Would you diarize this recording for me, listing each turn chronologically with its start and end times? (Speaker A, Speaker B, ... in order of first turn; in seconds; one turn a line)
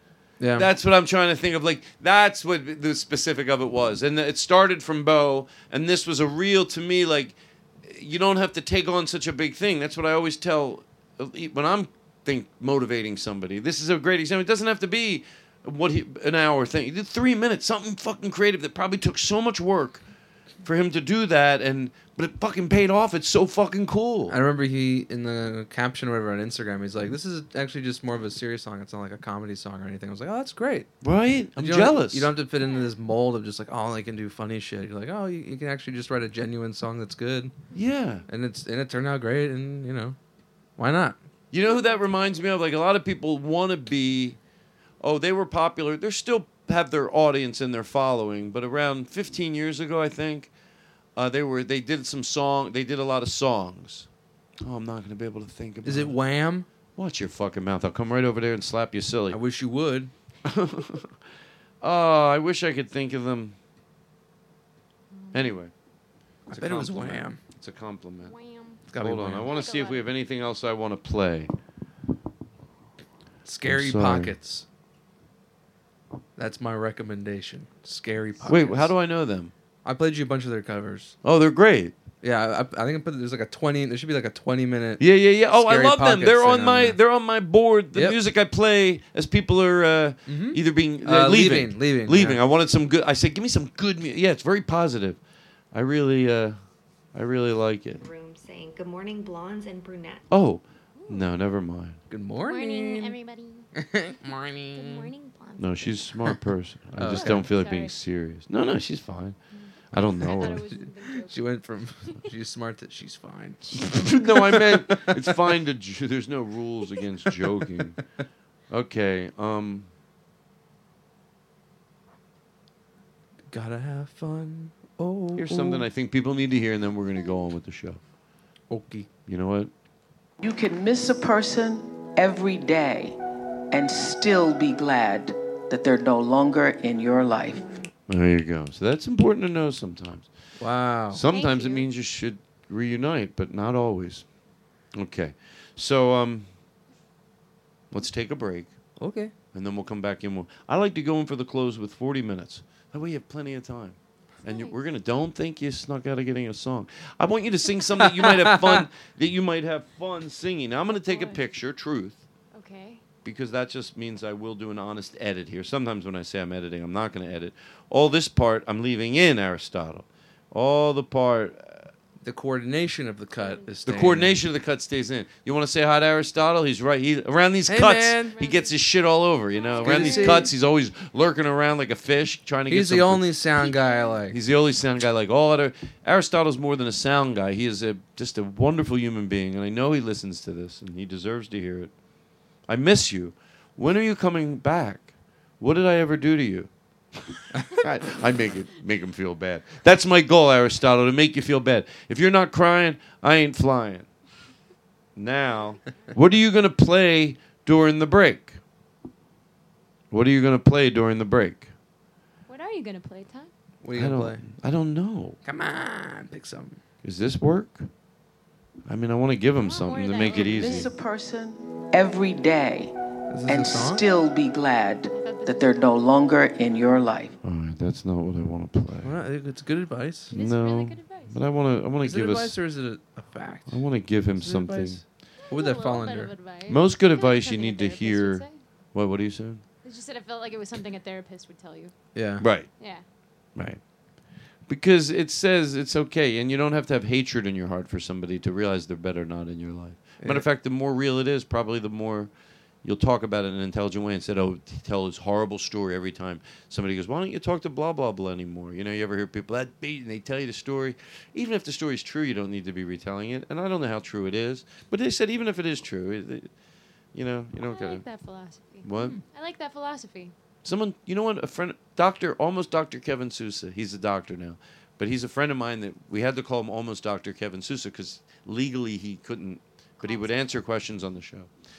Speaker A: 0.4-0.7
Speaker B: 0.6-20.0
Speaker B: 20.6-24.4
Speaker A: 24.3-30.9
Speaker B: 31.0-32.3
Speaker A: 31.6-37.5
Speaker B: 37.7-38.2
Speaker A: 38.3-40.2
Speaker A: 40.8-41.2
Speaker B: 41.5-44.4
Speaker C: 41.6-42.4
Speaker B: 45.0-50.5
Speaker B: 51.1-54.1
Speaker B: 54.6-56.1
Speaker A: 55.8-56.7
Speaker B: 57.0-59.4
Speaker A: 59.3-60.1
Speaker B: 60.5-61.1
Speaker B: 61.8-63.5
Speaker C: 65.1-65.6
Speaker B: 65.3-65.7
Speaker A: 66.5-67.4
Speaker B: 66.5-68.3
Speaker C: 68.2-68.8
Speaker A: 68.9-69.5
Speaker B: 69.0-71.5
Speaker C: 69.4-70.1
Speaker A: 73.4-74.6
Speaker B: 73.7-74.3
Speaker A: 76.4-78.9
Speaker B: 78.4-79.5
Speaker A: 79.8-81.2
Speaker B: 81.2-81.9
Speaker A: 82.2-87.0
Speaker B: 85.0-95.2
Speaker A: 90.3-92.4
Speaker B: 95.7-96.5
Speaker B: 97.1-98.0
Speaker D: 98.0-100.2
Speaker B: 100.3-102.0
Speaker C: 100.9-101.3
Speaker A: 102.1-103.1
Speaker C: 102.4-103.7
Speaker A: 103.8-105.1
Speaker C: 104.7-106.0
Speaker B: 105.6-109.3
Speaker A: 107.0-107.5
Speaker C: 107.1-107.9
Speaker C: 109.5-112.2
Speaker B: 109.9-110.6
Speaker A: 110.3-115.3
Speaker C: 113.6-114.0
Speaker B: 113.8-118.0
Speaker B: 118.7-119.9
Speaker A: 123.5-125.8
Speaker B: 125.4-128.0
Speaker A: 128.7-129.1
Speaker B: 129.3-129.7
Speaker E: 130.4-133.2
Speaker E: 133.7-137.6
Speaker B: 138.1-140.3
Speaker A: 140.6-141.2
Speaker B: 141.1-144.2
Speaker C: 141.3-141.9
Speaker B: 144.9-146.5
Speaker B: 147.9-148.7
Speaker A: 149.0-149.3
Speaker B: 149.5-162.2
Speaker C: 154.4-154.8
Speaker A: 158.2-158.8
Speaker C: 160.9-161.4
Speaker C: 162.5-163.0
Speaker B: 163.2-171.9
Speaker A: 172.2-174.4
Speaker C: 173.3-173.8
Speaker B: 173.9-183.3
Speaker A: 177.7-178.4
Speaker C: 178.3-180.5
Speaker A: 179.8-180.5
Speaker A: 182.7-184.4
Speaker C: 183.6-184.2
Speaker B: 184.3-191.9
Speaker B: 192.7-196.7
Speaker B: 197.7-204.1
Speaker B: 205.2-208.6
Speaker B: 210.1-211.7
Speaker C: 212.5-213.5
Speaker A: 213.8-214.4
Speaker B: 213.9-215.4
Speaker A: 215.4-216.8
Speaker B: 217.0-217.9
Speaker B: 218.9-220.9
Speaker C: 219.6-220.9
Speaker E: 220.2-222.9
Speaker A: 223.3-224.0
Speaker E: 223.4-227.3
Speaker C: 225.1-226.2
Speaker B: 227.4-229.1
Speaker A: 229.0-230.3
Speaker C: 230.3-231.4
Speaker B: 230.3-232.5
Speaker A: 232.0-233.8
Speaker B: 233.7-235.0
Speaker A: 234.3-236.3
Speaker C: 235.4-238.6
Speaker B: 236.7-239.6
Speaker C: 239.8-241.9
Speaker A: 242.1-242.4
Speaker B: 242.4-242.7
Speaker C: 242.8-243.0
Speaker B: 244.7-252.3
Speaker B: 252.8-266.5
Speaker B: 267.1-268.0
Speaker C: 267.6-270.3
Speaker B: 268.8-269.2
Speaker B: 270.6-281.5
Speaker C: 280.0-280.5